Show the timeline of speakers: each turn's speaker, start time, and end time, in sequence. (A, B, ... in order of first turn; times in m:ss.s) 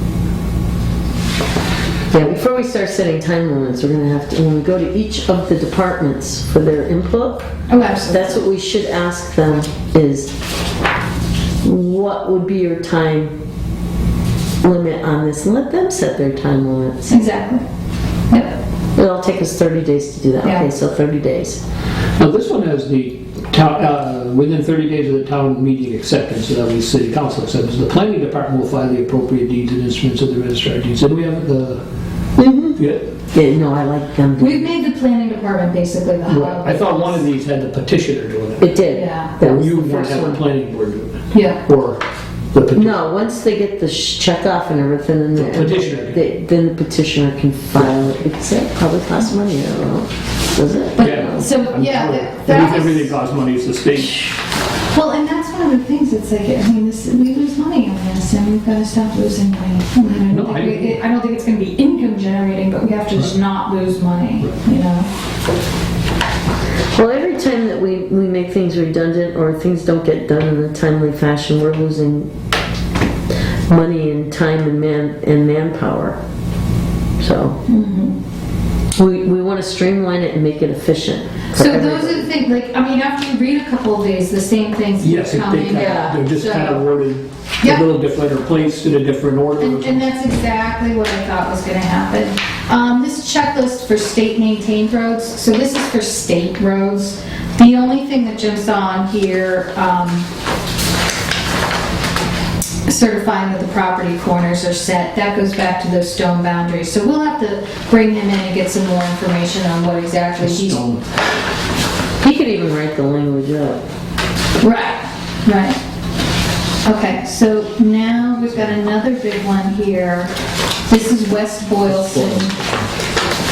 0:02.1-0:07.5 A
0:07.7-0:08.4 B
0:08.1-0:10.3 A
0:11.6-0:13.3 A
0:14.6-0:17.0 A
0:17.0-0:17.6 B
0:18.3-0:18.6 B
0:19.0-0:21.6 A
0:20.4-0:20.7 B
0:22.2-0:31.8 C
0:32.4-0:32.8 A
0:32.8-0:33.1 C
0:33.3-0:34.7 A
0:34.4-0:37.2 B
0:36.3-0:38.8 C
0:38.6-0:40.4 A
0:38.9-0:39.3 B
0:39.4-0:42.0 C
0:41.3-0:41.6 B
0:42.5-0:43.0 C
0:42.7-0:51.5 A
0:45.3-0:46.2 C
0:47.8-0:48.2 C
0:51.0-0:53.1 B
0:51.0-0:54.3 C
0:54.9-1:05.1 B
1:00.3-1:01.0 C
1:06.9-1:12.3 A
1:13.7-1:16.2 A
1:17.2-1:17.6 A
1:17.7-1:18.2 B
1:19.0-1:22.2 A
1:21.5-1:26.8 B
1:25.0-1:30.0 C
1:25.8-1:26.2 A
1:29.6-1:40.3 B
1:42.8-1:50.8 B
1:50.4-1:51.0 C
1:52.2-1:53.8 A
1:54.6-1:55.8 B
1:56.8-2:00.3 B
2:00.9-2:02.6 B
2:01.9-2:02.5 C